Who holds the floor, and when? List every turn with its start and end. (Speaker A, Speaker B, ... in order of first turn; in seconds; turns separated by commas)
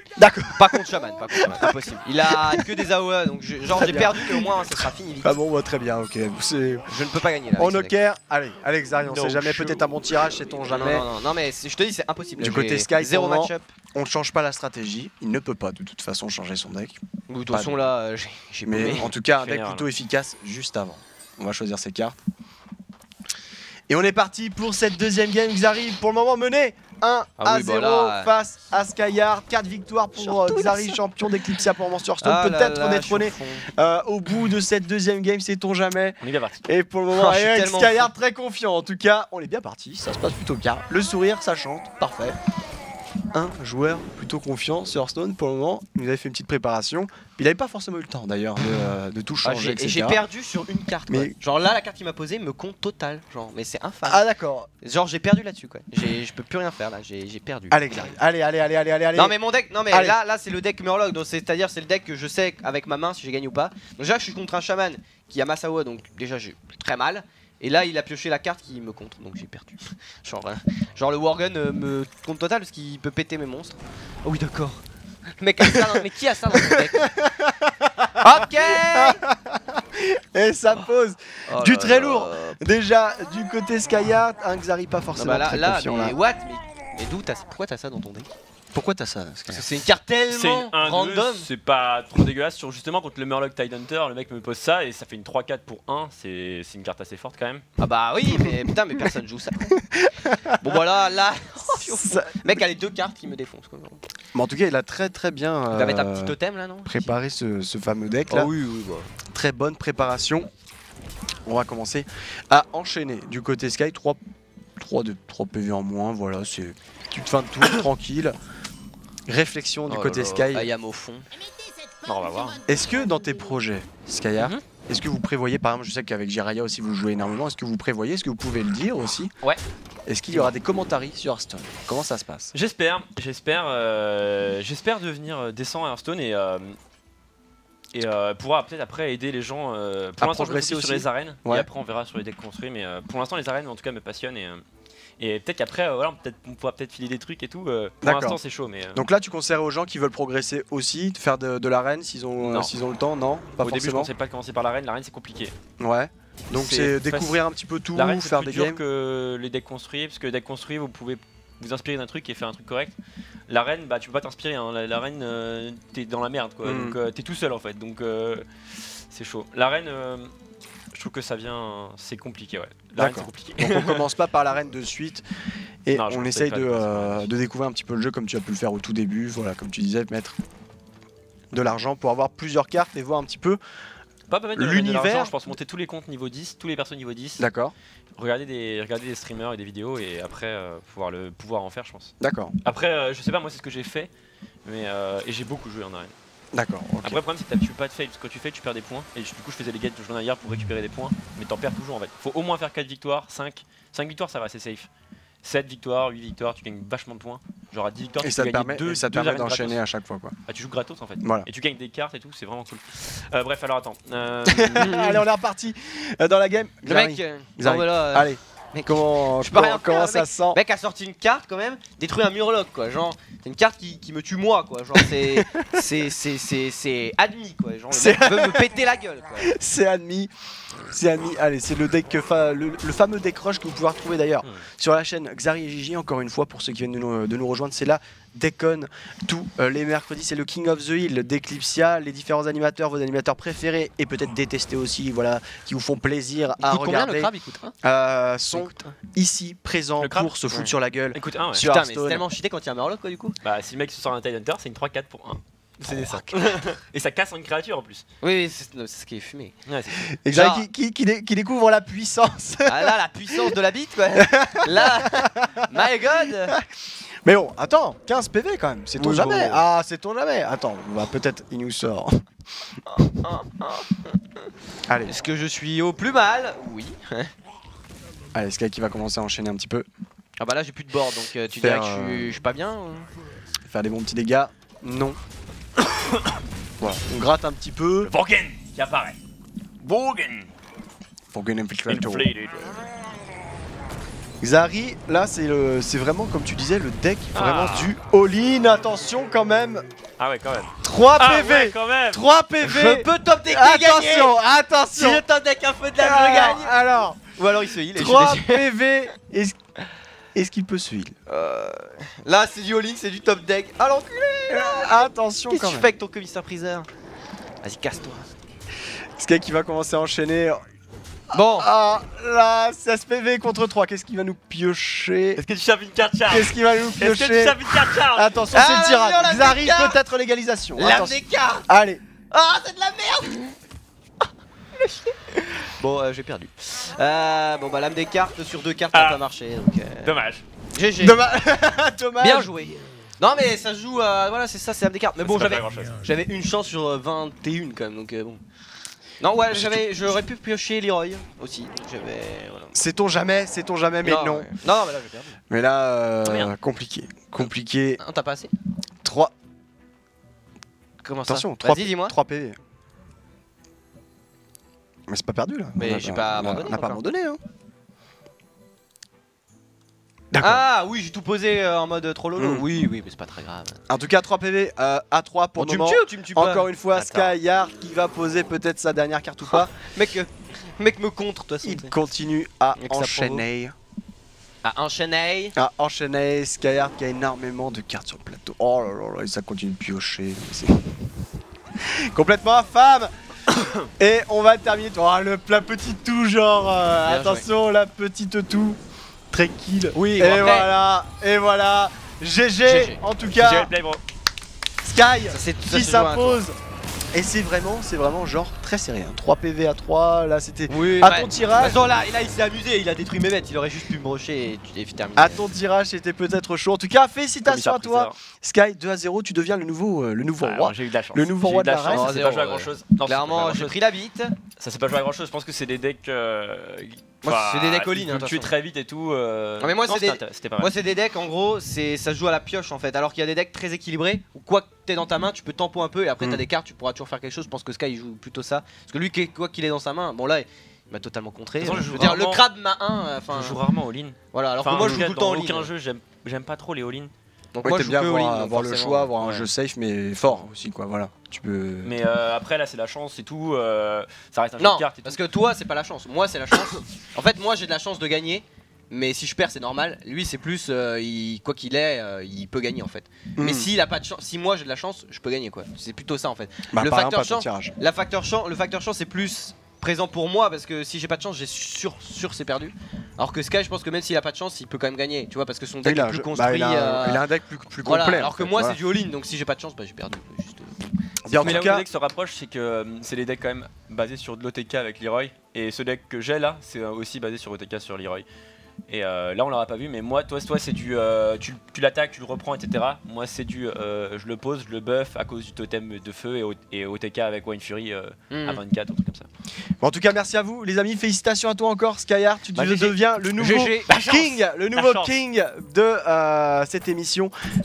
Speaker A: 0.2-0.8, Speaker B: 0.5-5.4, Speaker A: 1.4-2.8, Speaker A: 3.7-4.7, Speaker A: 5.2-6.9, Speaker B: 6.9-7.9, Speaker A: 7.6-11.1, Speaker C: 9.1-9.7, Speaker B: 9.3-9.7, Speaker B: 10.6-13.7, Speaker A: 12.4-17.0, Speaker B: 17.3-19.1, Speaker A: 17.5-17.8, Speaker A: 18.7-22.2, Speaker C: 18.9-19.9, Speaker A: 23.9-42.4, Speaker B: 27.4-28.3, Speaker B: 30.2-31.0, Speaker B: 32.2-33.7, Speaker C: 36.2-36.6, Speaker B: 37.1-38.1, Speaker A: 43.3-50.2, Speaker B: 49.4-54.3, Speaker A: 51.1-51.4, Speaker A: 54.1-54.7, Speaker B: 54.8-58.1, Speaker A: 57.7-59.4, Speaker B: 59.1-74.8, Speaker A: 59.9-60.2, Speaker B: 75.4-77.1, Speaker A: 75.7-76.0, Speaker A: 76.5-86.2, Speaker B: 78.2-79.2, Speaker B: 81.5-82.6, Speaker B: 85.2-88.3, Speaker A: 88.7-89.7, Speaker B: 89.5-91.5, Speaker C: 90.3-97.7, Speaker B: 97.8-99.8, Speaker A: 99.8-100.8, Speaker B: 100.5-104.0, Speaker A: 101.6-102.6, Speaker A: 104.3-108.5, Speaker B: 105.7-107.1, Speaker B: 108.3-109.1, Speaker A: 109.3-110.5, Speaker A: 111.5-114.2, Speaker A: 114.8-118.3, Speaker A: 119.3-120.7, Speaker B: 119.9-121.3, Speaker C: 122.0-122.6, Speaker A: 122.7-129.3, Speaker A: 130.1-132.5, Speaker C: 132.5-136.8, Speaker C: 137.9-144.6, Speaker A: 140.2-141.7, Speaker C: 145.2-149.0, Speaker A: 148.0-148.4, Speaker A: 148.9-154.1, Speaker C: 152.4-152.7, Speaker C: 153.6-155.5, Speaker A: 155.8-158.8, Speaker C: 156.5-157.4, Speaker C: 157.9-163.0, Speaker C: 163.5-168.5, Speaker A: 166.6-167.0, Speaker C: 169.1-170.3, Speaker C: 170.9-174.1, Speaker A: 173.0-175.2, Speaker A: 175.8-180.4, Speaker C: 175.9-177.3, Speaker A: 181.5-183.6, Speaker C: 184.3-187.4, Speaker A: 184.6-185.4, Speaker A: 187.4-187.8, Speaker C: 188.2-192.1, Speaker A: 192.2-192.6, Speaker C: 192.6-194.1, Speaker C: 194.7-196.1, Speaker A: 196.5-197.2, Speaker C: 197.0-204.9, Speaker C: 205.4-209.8, Speaker A: 208.2-210.3, Speaker C: 210.5-215.1, Speaker A: 211.2-211.5, Speaker A: 214.4-220.6, Speaker B: 214.8-215.2, Speaker B: 216.8-229.5, Speaker A: 225.2-225.8, Speaker A: 227.9-228.8, Speaker A: 229.4-230.3, Speaker A: 230.9-247.3, Speaker B: 246.7-247.8, Speaker A: 247.8-252.2, Speaker B: 248.5-248.9, Speaker C: 250.0-250.3, Speaker C: 251.1-251.7, Speaker B: 251.6-253.4, Speaker C: 253.4-258.1, Speaker B: 255.8-256.6, Speaker B: 258.2-259.6, Speaker C: 259.7-260.1, Speaker A: 260.1-263.6, Speaker B: 260.3-260.6, Speaker B: 262.7-266.6, Speaker A: 264.1-265.8, Speaker A: 267.2-272.2, Speaker B: 269.0-269.6, Speaker B: 272.9-274.1, Speaker A: 274.9-275.1, Speaker B: 275.1-277.3, Speaker A: 278.3-279.9, Speaker B: 280.4-283.1, Speaker A: 281.6-282.3, Speaker A: 283.6-285.2, Speaker C: 285.9-286.3, Speaker A: 286.8-288.1, Speaker C: 288.1-289.2, Speaker C: 289.8-290.5, Speaker A: 291.3-292.3, Speaker C: 291.9-292.9, Speaker A: 294.4-299.9, Speaker C: 297.3-297.9, Speaker C: 300.2-302.3, Speaker A: 300.8-305.2, Speaker B: 302.6-304.4, Speaker B: 305.0-306.8, Speaker A: 306.0-307.2, Speaker B: 307.3-308.7, Speaker A: 307.9-309.6, Speaker A: 310.3-311.2, Speaker B: 311.3-316.9, Speaker A: 314.5-315.9, Speaker B: 317.6-318.3, Speaker A: 319.2-320.6, Speaker B: 321.3-321.7, Speaker A: 321.4-325.4, Speaker C: 325.4-328.4, Speaker A: 326.3-332.0, Speaker B: 328.5-330.0, Speaker B: 330.8-331.7, Speaker B: 332.3-333.6, Speaker B: 334.8-340.2, Speaker C: 338.9-339.2, Speaker C: 340.0-340.4, Speaker B: 340.7-341.3, Speaker A: 341.0-342.5, Speaker B: 342.2-348.4, Speaker C: 345.2-346.0, Speaker B: 349.2-352.8, Speaker A: 349.5-349.8, Speaker A: 352.7-354.5, Speaker B: 354.0-355.4, Speaker A: 355.5-358.0, Speaker C: 356.3-356.5, Speaker B: 358.0-358.5, Speaker A: 359.0-359.3, Speaker B: 361.0-362.1, Speaker A: 361.3-362.6, Speaker A: 365.1-367.4, Speaker B: 365.8-367.0, Speaker A: 370.3-370.6, Speaker B: 370.4-373.8, Speaker A: 372.4-372.7, Speaker A: 373.9-379.7, Speaker B: 375.6-376.7, Speaker C: 376.9-377.3, Speaker B: 379.5-381.9, Speaker A: 381.6-383.8, Speaker B: 382.8-383.4, Speaker B: 384.6-385.6, Speaker A: 385.6-391.1, Speaker A: 391.8-393.1, Speaker A: 394.0-398.8, Speaker B: 397.1-397.5, Speaker A: 399.3-403.7, Speaker B: 399.9-400.7, Speaker B: 402.6-403.0, Speaker C: 403.3-404.0, Speaker A: 404.8-406.6, Speaker B: 405.3-406.4, Speaker A: 407.1-411.8, Speaker B: 410.7-415.5, Speaker A: 415.2-422.2, Speaker C: 417.5-418.2, Speaker C: 420.4-423.8, Speaker B: 421.9-424.4, Speaker C: 424.6-430.7, Speaker B: 427.2-428.5, Speaker B: 429.6-443.6, Speaker C: 441.6-442.5, Speaker C: 443.3-447.1, Speaker B: 444.3-445.7, Speaker B: 447.6-449.1, Speaker A: 447.6-451.9, Speaker C: 449.2-449.5, Speaker C: 451.8-455.2, Speaker B: 454.6-477.3, Speaker A: 463.4-463.7, Speaker A: 466.7-467.7, Speaker A: 475.8-478.8, Speaker B: 477.8-480.9, Speaker A: 481.2-481.9, Speaker C: 481.3-488.3, Speaker C: 488.9-499.3, Speaker B: 498.3-498.6, Speaker A: 499.8-507.3, Speaker B: 502.6-503.9, Speaker C: 503.9-505.1